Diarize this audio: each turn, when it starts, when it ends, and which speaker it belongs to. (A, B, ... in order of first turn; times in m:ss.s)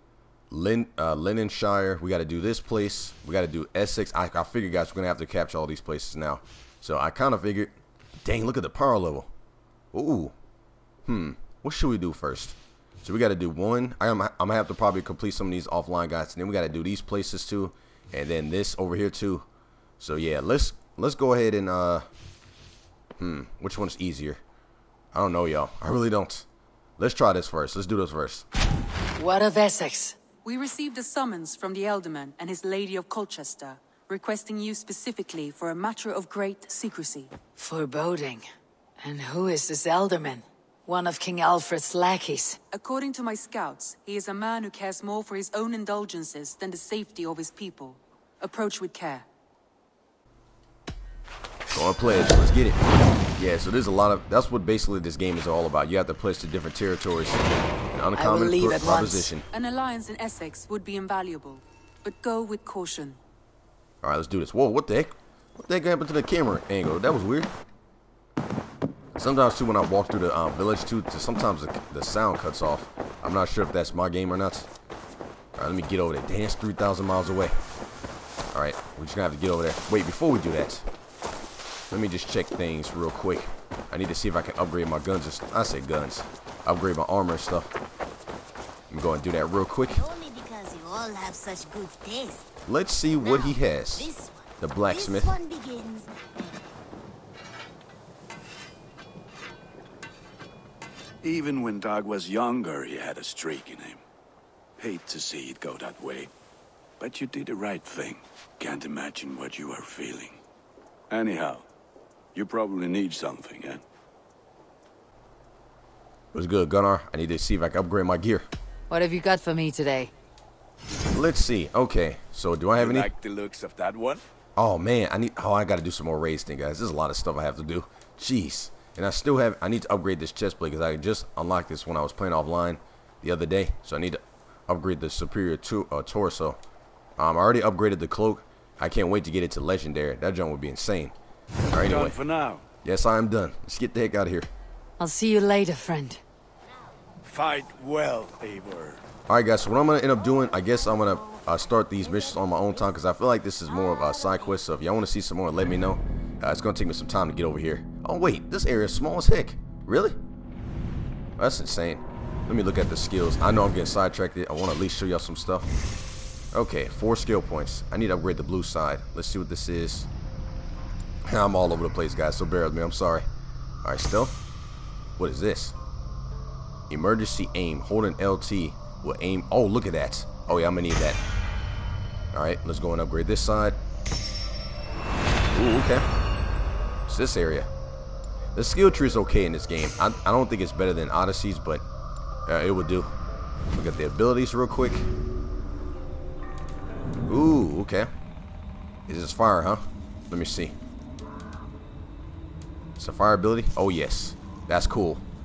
0:00.5-0:09.3 A
0:09.9-0:10.3 A
0:11.0-0:19.4 A
0:20.0-0:22.1 A
0:23.2-0:24.4 A
0:25.1-0:26.4 A
0:27.0-0:28.4 A
0:29.2-0:30.2 B
0:30.4-0:37.3 C
0:37.6-0:38.4 B
0:39.0-0:42.6 B
0:42.7-0:49.2 C
0:51.7-0:52.8 A
0:53.4-0:59.4 A
0:58.1-0:59.3 B
0:59.5-1:03.2 C
1:04.0-1:07.5 A
1:09.2-1:14.7 A
1:15.6-1:17.6 A
1:18.5-1:20.8 A
1:21.9-1:27.7 A
1:28.9-1:30.1 A
1:30.1-1:32.4 D
1:32.6-1:35.4 A
1:35.4-1:36.1 D
1:41.2-1:44.0 E
1:44.8-1:46.3 E
1:47.0-1:50.4 E
1:51.1-1:51.6 E
1:52.3-1:53.8 E
1:56.3-1:58.5 A
1:58.9-2:00.1 B
2:01.1-2:03.1 A
2:02.8-2:04.2 E
2:04.6-2:16.6 A
2:17.2-2:21.1 A
2:21.7-2:22.2 A
2:21.8-2:22.6 E
2:22.8-2:24.5 A
2:25.0-2:26.2 B
2:27.2-2:29.0 E
2:29.3-2:40.2 A
2:41.4-2:45.7 A
2:46.5-2:50.1 A
2:51.2-2:53.2 A
2:53.8-2:54.4 A
2:55.2-2:55.7 A
2:56.9-3:01.2 A
3:02.3-3:03.8 A
3:05.5-3:06.1 A
3:07.1-3:07.7 A
3:08.5-3:11.8 A
3:12.5-3:13.1 A
3:13.7-3:15.1 A
3:17.3-3:18.1 A
3:19.1-3:20.7 A
3:23.0-3:25.2 A